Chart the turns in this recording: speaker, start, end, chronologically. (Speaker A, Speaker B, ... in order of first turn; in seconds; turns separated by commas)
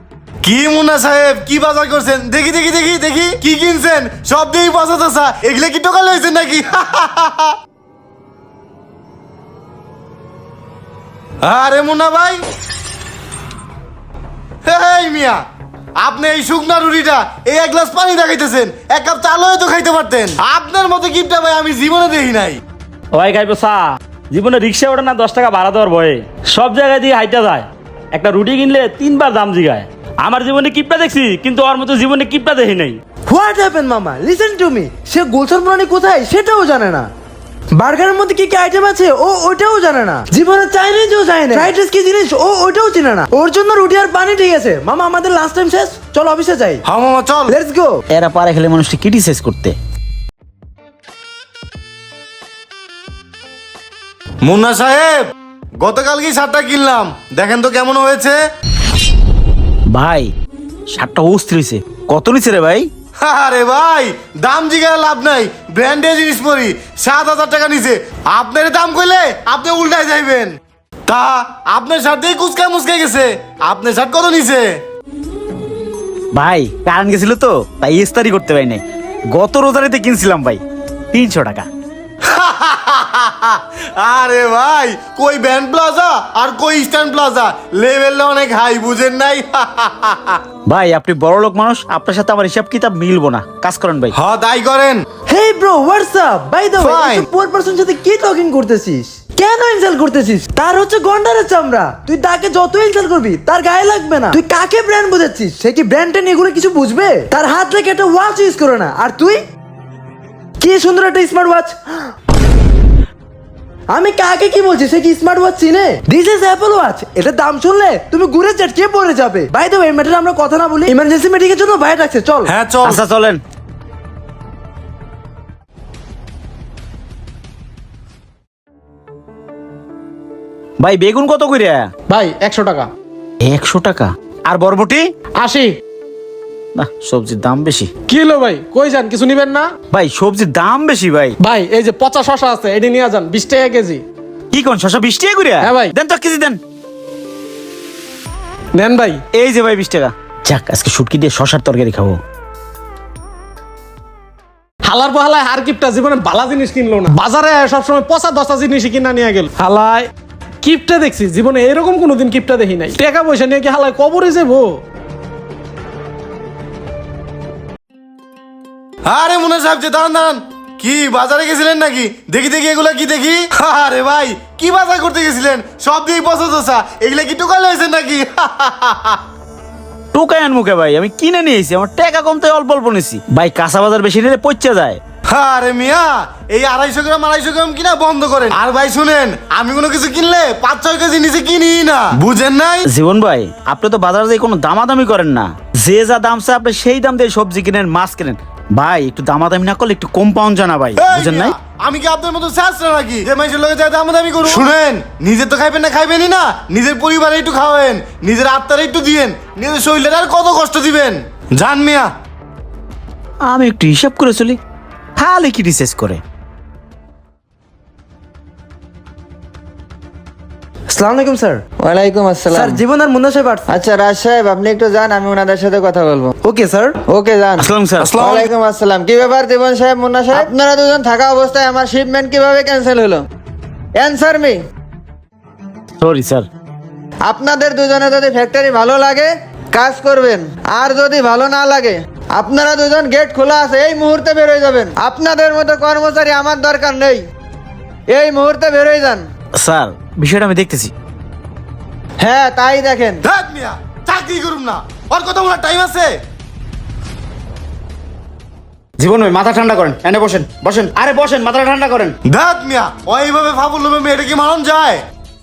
Speaker A: 0.4-7.6, Speaker A: 11.4-12.4, Speaker A: 14.7-15.4, Speaker A: 16.0-22.6, Speaker B: 33.3-37.1, Speaker B: 37.8-46.8, Speaker A: 46.9-47.5, Speaker B: 47.5-48.0, Speaker C: 48.1-49.8, Speaker A: 54.5-58.4, Speaker C: 59.9-60.3, Speaker C: 60.9-62.9, Speaker A: 63.2-70.5, Speaker A: 71.1-74.7, Speaker C: 76.3-80.6, Speaker C: 81.1-81.7, Speaker A: 82.3-90.4, Speaker C: 90.7-94.1, Speaker A: 94.2-95.0, Speaker B: 95.3-109.4, Speaker A: 96.8-97.3, Speaker B: 110.6-112.1, Speaker B: 113.9-122.5, Speaker A: 122.5-123.0, Speaker C: 122.8-123.4, Speaker C: 130.8-131.9, Speaker D: 132.1-132.9, Speaker C: 133.4-135.1, Speaker D: 135.4-135.8, Speaker C: 136.8-137.9, Speaker D: 138.1-139.7, Speaker C: 139.9-141.4, Speaker D: 141.4-144.0, Speaker C: 144.5-146.6, Speaker D: 145.6-145.9, Speaker D: 148.8-149.2, Speaker C: 149.3-152.2, Speaker D: 154.8-160.1, Speaker D: 160.6-164.8, Speaker A: 169.1-179.2, Speaker C: 180.1-185.0, Speaker A: 185.3-192.9, Speaker C: 192.9-201.5, Speaker A: 201.0-212.1, Speaker C: 213.4-214.6, Speaker C: 215.2-216.2, Speaker B: 220.9-221.6, Speaker E: 221.8-222.8, Speaker B: 222.5-223.7, Speaker E: 223.7-226.3, Speaker B: 226.4-227.0, Speaker E: 227.1-227.7, Speaker C: 227.6-228.2, Speaker A: 228.0-228.5, Speaker E: 228.2-233.2, Speaker E: 234.0-234.6, Speaker C: 236.0-236.5, Speaker E: 237.3-247.2, Speaker E: 248.1-249.2, Speaker C: 249.6-250.9, Speaker E: 252.2-253.2, Speaker A: 253.2-256.1, Speaker C: 259.0-262.1, Speaker A: 262.3-265.0